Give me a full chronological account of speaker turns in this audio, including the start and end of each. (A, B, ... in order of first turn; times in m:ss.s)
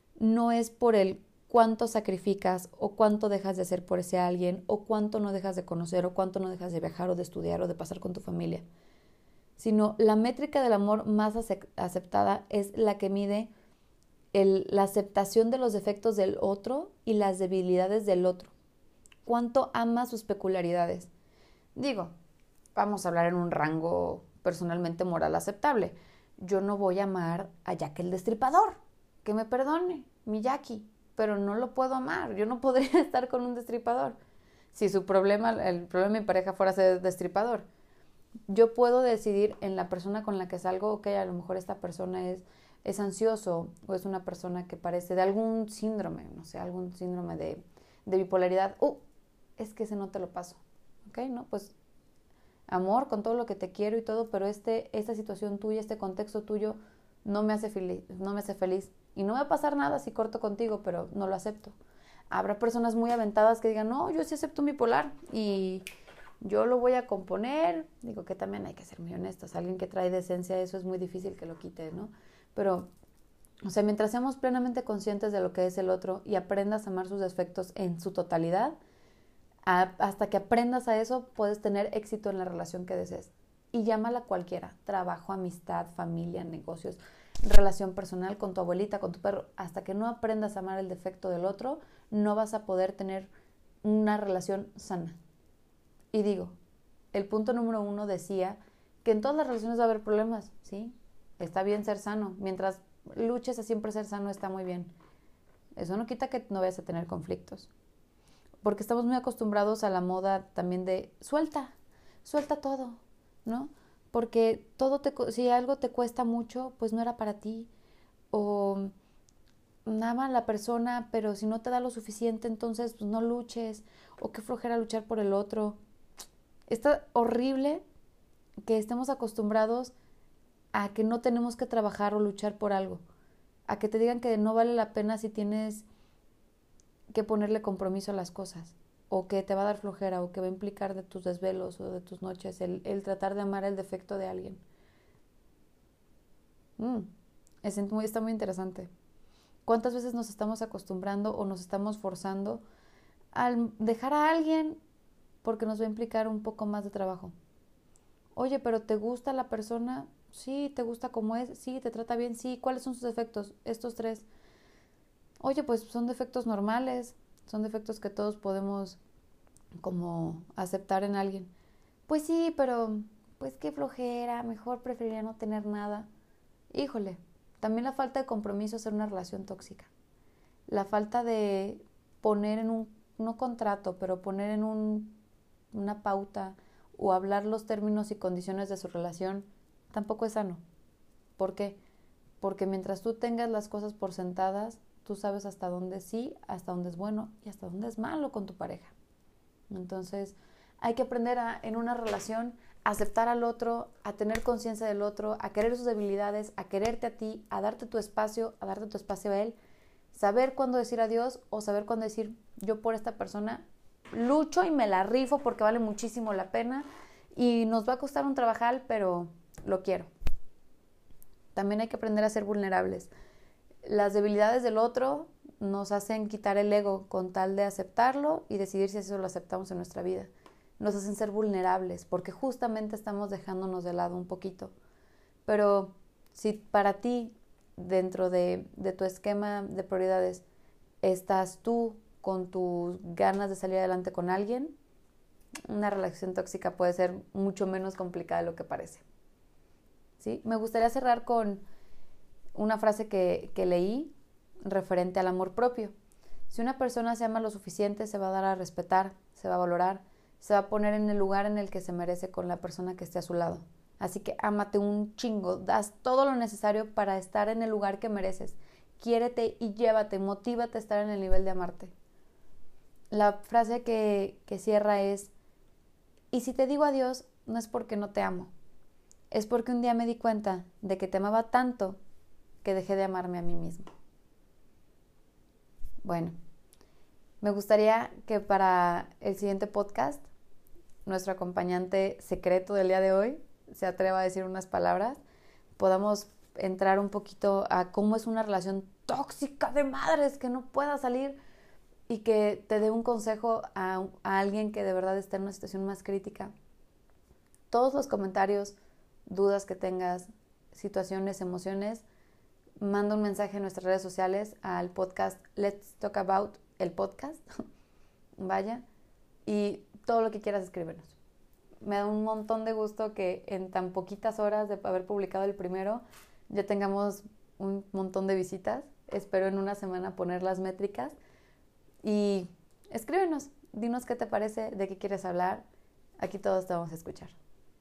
0:00.2-0:08.6 A
0:09.6-0:13.5 A
0:14.3-0:18.5 A
0:19.2-0:21.1 A
0:21.8-0:22.1 A
0:22.7-0:34.2 A
0:34.7-0:37.6 A
0:38.5-0:49.0 A
0:49.6-0:51.7 A
0:52.7-1:01.7 A
1:02.3-1:05.8 A
1:06.4-1:12.9 A
1:13.6-1:18.8 A
1:19.6-1:33.3 A
1:33.8-1:35.2 A
1:36.1-1:36.6 A
1:37.1-1:44.9 A
1:45.8-1:47.7 A
1:48.6-1:51.7 A
1:52.2-1:57.7 A
1:58.3-1:58.9 A
1:59.9-2:05.8 A
2:06.7-2:07.8 A
2:08.6-2:09.9 A
2:10.7-2:13.0 A
2:13.7-2:15.8 A
2:17.1-2:24.6 A
2:26.8-2:27.1 A
2:27.6-2:28.9 A
2:29.6-2:32.6 A
2:33.3-2:34.8 A
2:35.4-2:37.3 A
2:38.4-2:44.2 A
2:45.4-2:49.0 A
2:49.8-2:51.5 A
2:52.1-2:56.1 A
2:56.7-2:59.9 A
3:00.7-3:05.2 A
3:05.7-3:10.6 A
3:11.4-3:11.8 A
3:12.4-3:18.9 A
3:19.7-3:29.6 A
3:30.1-3:40.1 A
3:41.6-3:43.1 A
3:43.8-3:54.7 A
3:55.4-4:00.4 A
4:01.0-4:04.7 A
4:05.7-4:09.0 A
4:10.2-4:11.6 A
4:12.6-4:14.1 A
4:14.6-4:15.9 A
4:16.5-4:31.9 A
4:33.1-4:35.3 A
4:36.3-4:38.5 A
4:39.3-4:42.0 A
4:42.6-4:43.9 A
4:46.0-4:46.4 A
4:47.4-4:50.2 A
4:51.0-4:55.2 A
4:55.8-5:01.4 A
5:02.1-5:06.5 A
5:07.7-5:08.8 A
5:09.3-5:12.0 A
5:12.8-5:17.4 A
5:18.4-5:18.8 A
5:19.4-5:21.2 A
5:21.8-5:31.2 A
5:32.0-5:35.6 A
5:36.2-5:37.4 A